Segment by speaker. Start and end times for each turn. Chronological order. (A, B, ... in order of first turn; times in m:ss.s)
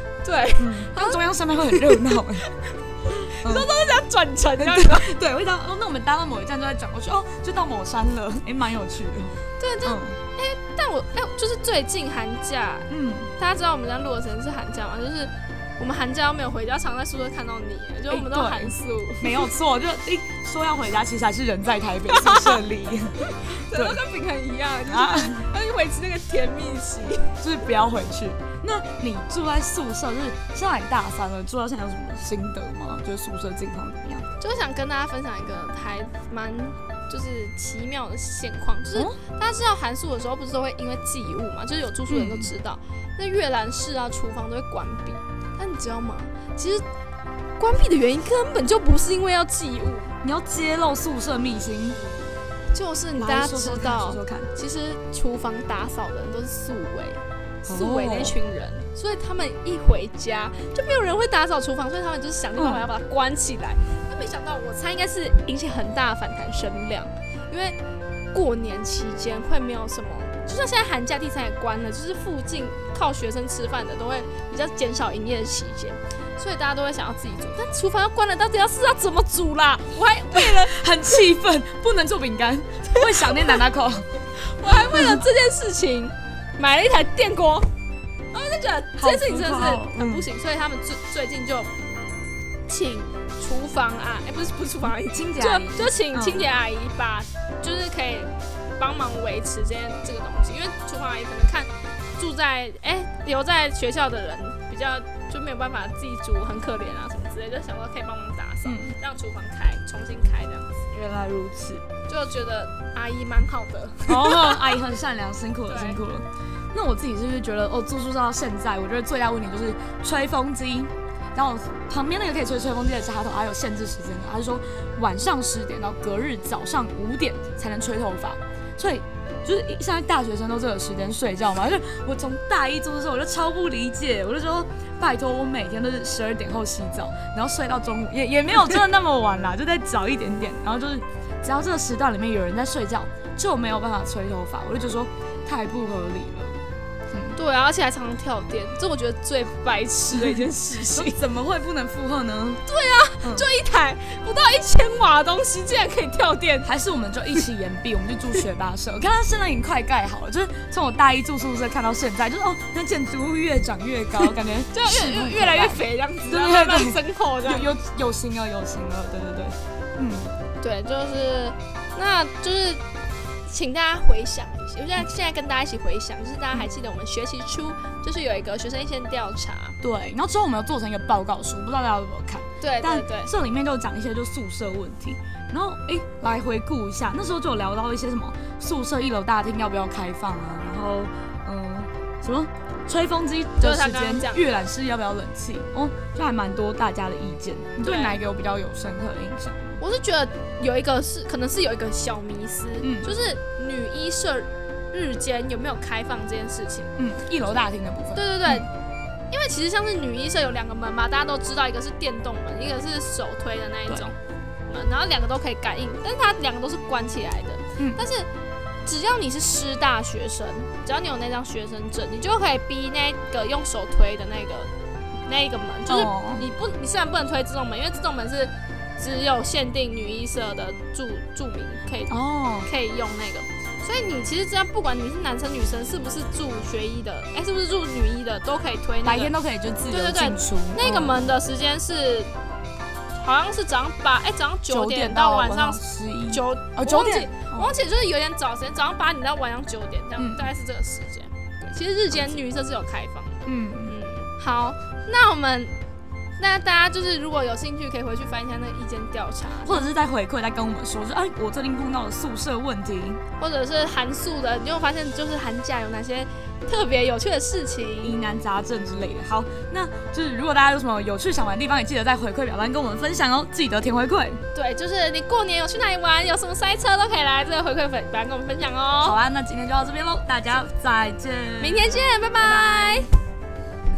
0:00.2-0:01.2 A
0:00.6-0:02.4 B
0:01.7-0:02.6 A
0:03.3-0:03.7 B
0:03.3-0:05.1 A
0:04.6-0:10.2 B
0:09.6-0:19.5 A
0:12.9-0:13.3 B
0:18.1-0:24.0 B
0:22.1-0:22.6 A
0:23.2-0:27.3 A
0:24.9-0:25.4 B
0:27.4-0:34.2 B
0:34.4-0:46.8 A
0:42.1-0:42.5 B
0:47.6-0:50.1 A
0:50.2-0:52.0 B
0:52.7-1:07.8 A
0:53.2-0:54.5 B
0:57.6-0:58.4 B
1:02.6-1:02.9 B
1:08.3-1:20.8 A
1:20.3-1:25.2 B
1:22.9-1:23.6 A
1:24.4-1:27.7 A
1:28.3-1:31.7 A
1:29.0-1:30.2 B
1:32.7-1:50.9 A
1:35.0-1:36.5 B
1:48.6-1:49.0 B
1:50.9-1:51.8 B
1:52.1-1:54.7 A
1:54.1-2:26.6 B
1:55.7-1:56.0 A
2:27.1-2:27.4 B
2:27.3-2:31.2 A
2:30.9-2:32.6 B
2:32.7-2:36.7 A
2:33.2-2:33.4 B
2:36.6-2:50.3 B
2:44.7-2:47.7 A
2:50.6-2:52.8 A
2:53.5-2:59.8 A
2:59.8-3:19.8 B
3:02.6-3:03.3 A
3:13.6-3:14.4 A
3:17.8-3:18.2 A
3:19.8-3:26.9 A
3:22.8-3:23.1 B
3:27.0-3:28.7 B
3:28.1-3:28.7 A
3:29.3-3:34.2 A
3:34.7-3:38.3 A
3:37.8-3:38.0 B
3:38.8-3:44.7 A
3:45.2-3:59.3 A
3:45.9-3:46.5 B
3:52.1-3:52.7 B
3:59.0-4:01.3 B
3:59.9-4:02.3 A
4:03.1-4:15.7 A
4:04.7-4:07.8 B
4:10.2-4:10.5 B
4:12.1-4:12.4 B
4:13.4-4:13.9 B
4:16.4-4:19.9 A
4:19.6-4:23.2 B
4:23.4-4:28.2 A
4:28.0-4:34.4 B
4:34.5-4:39.2 A
4:39.0-4:43.1 B
4:41.6-4:43.1 A